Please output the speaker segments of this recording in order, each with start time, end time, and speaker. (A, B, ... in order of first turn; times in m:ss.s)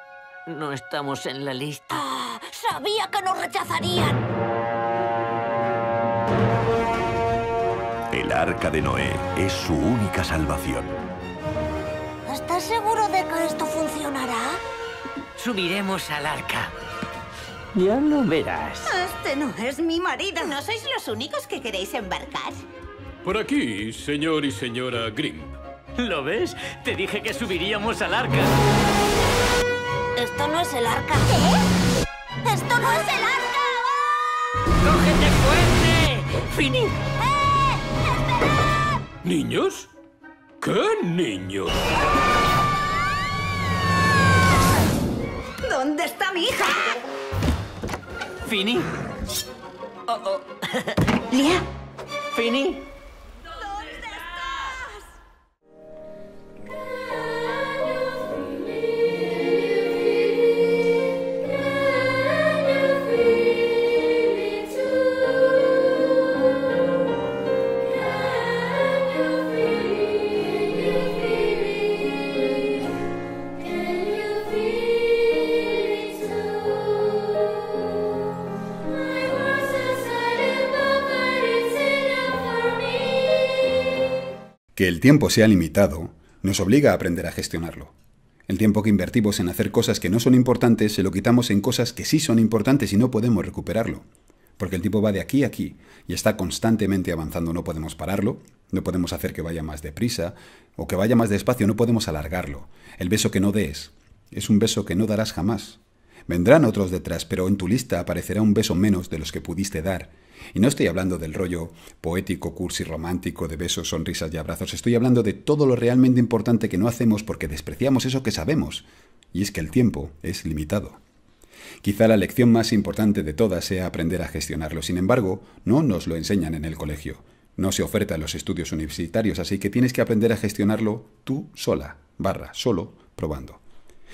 0:00.5-0:02.1 A
0:02.2-0:04.2 B
0:08.1-0:11.0 C
0:12.3-0:14.6 B
0:15.4-0:16.7 A
0:17.8-0:18.9 A
0:18.9-0:20.6 D
0:20.5-0:22.6 E
0:23.2-0:25.5 F
0:26.0-0:28.5 A
0:30.2-0:31.4 B
0:32.4-0:34.6 B
0:34.8-0:37.0 A
0:37.3-0:39.0 B
0:39.2-0:39.9 F
0:40.6-0:41.7 F
0:45.6-0:47.0 D
0:48.4-0:48.9 A
0:50.1-0:51.0 A
0:51.3-0:51.6 D
0:52.3-0:52.9 A
0:53.9-0:54.7 D
1:24.8-1:27.9 G
1:28.5-1:34.0 G
1:34.6-2:01.0 G
2:01.8-2:13.6 G